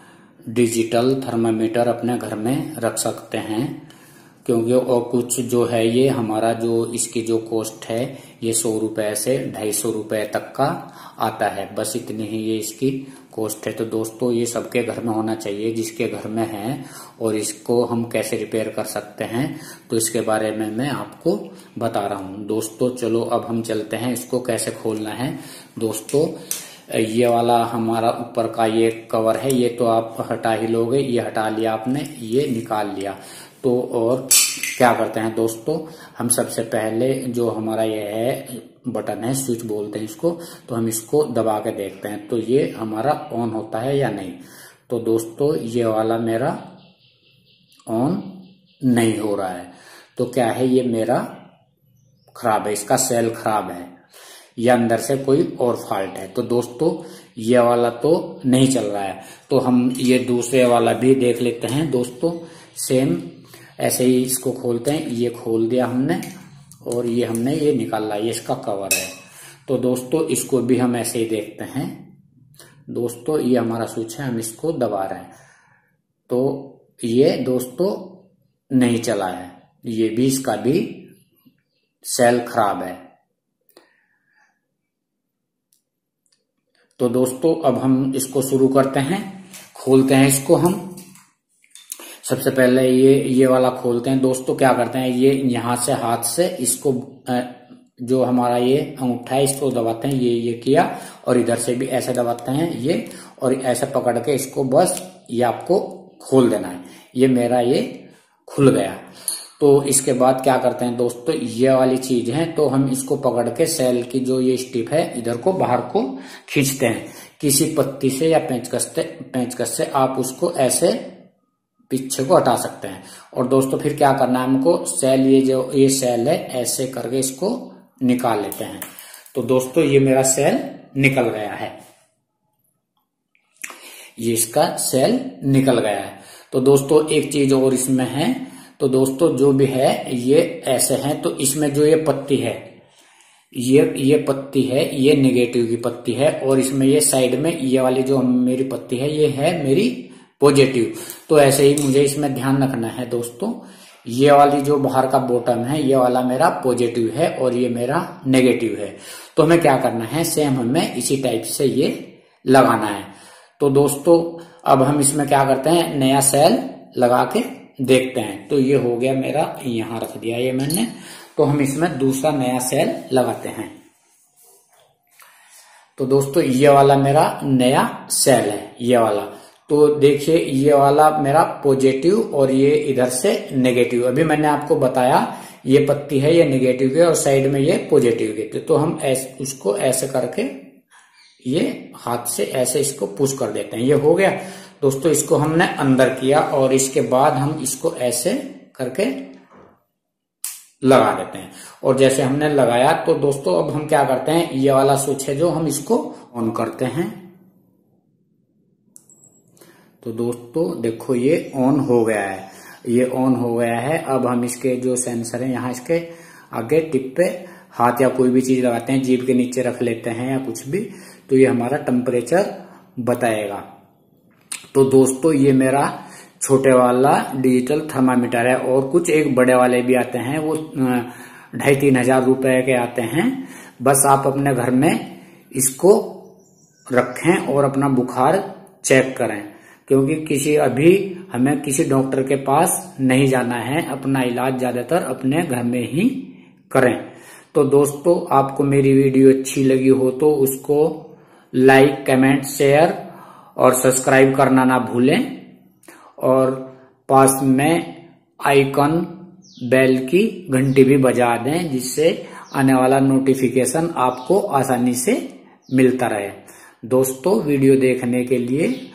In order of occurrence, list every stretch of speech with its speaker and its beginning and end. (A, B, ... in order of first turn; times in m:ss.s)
0:00.5-0:03.8 A
0:04.4-0:26.3 A
0:26.9-0:46.6 A
0:47.9-0:51.3 A
0:52.3-0:53.9 A
0:54.6-1:03.2 A
1:03.8-1:06.2 A
1:06.8-1:09.1 A
1:09.7-1:12.0 A
1:12.9-1:15.3 A
1:16.3-1:21.1 A
1:22.0-1:23.0 A
1:27.0-1:30.9 A
1:32.2-1:47.9 A
1:48.4-1:49.0 A
1:49.6-2:01.0 A
2:01.9-2:11.7 A
2:14.2-2:22.6 A
2:23.5-2:53.7 A
2:56.0-3:10.6 A
3:11.4-3:19.2 A
3:20.8-3:27.2 A
3:30.0-3:43.6 A
3:44.7-3:55.0 A
3:55.5-3:56.2 A
3:56.9-4:06.2 A
4:06.7-4:11.0 A
4:11.5-4:13.0 A
4:13.6-4:15.3 A
4:16.2-4:17.9 A
4:18.4-4:19.1 A
4:19.6-4:28.8 A